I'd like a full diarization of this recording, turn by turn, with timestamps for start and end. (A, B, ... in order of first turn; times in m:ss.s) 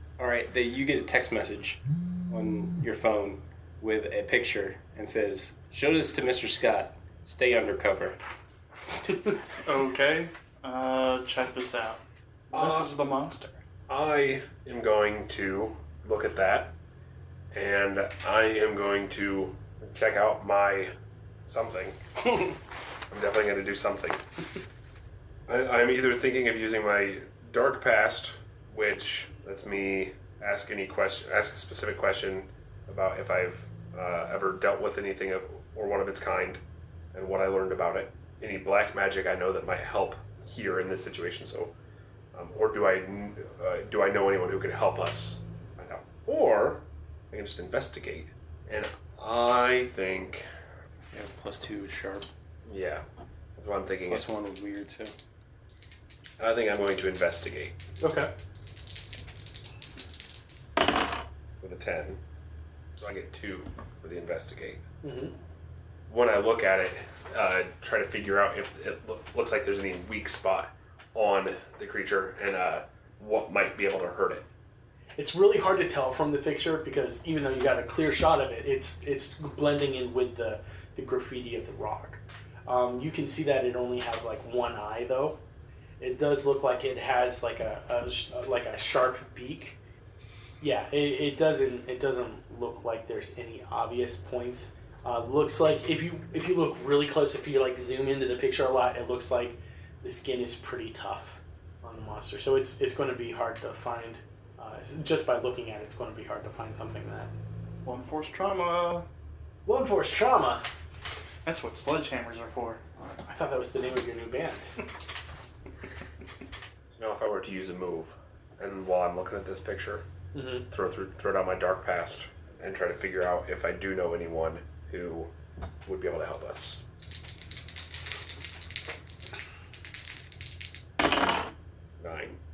0:00.2-0:08.2 A
0:09.6-0:13.6 B
0:12.5-0:12.9 C
0:13.9-0:16.7 C
0:17.5-0:21.0 C
0:21.5-0:22.0 C
0:23.1-0:24.2 C
0:25.5-0:36.6 C
0:37.1-0:41.7 C
0:42.3-0:50.5 C
0:51.1-0:52.3 A
0:52.7-0:53.0 C
0:53.6-0:54.3 C
0:54.1-0:55.1 A
0:56.4-0:57.8 C
0:58.0-0:58.3 D
1:01.6-1:02.2 C
1:03.0-1:04.8 C
1:05.0-1:05.4 D
1:06.1-1:14.4 C
1:15.2-1:25.4 D
1:26.0-1:29.8 D
1:30.6-1:47.3 D
1:47.8-1:49.1 B
1:49.7-1:50.6 D
1:51.4-1:52.8 B
1:53.3-1:54.7 D
1:57.0-2:00.0 C
2:00.3-2:00.7 D
2:00.7-2:05.3 C
2:05.9-2:06.8 C
2:12.0-2:12.4 C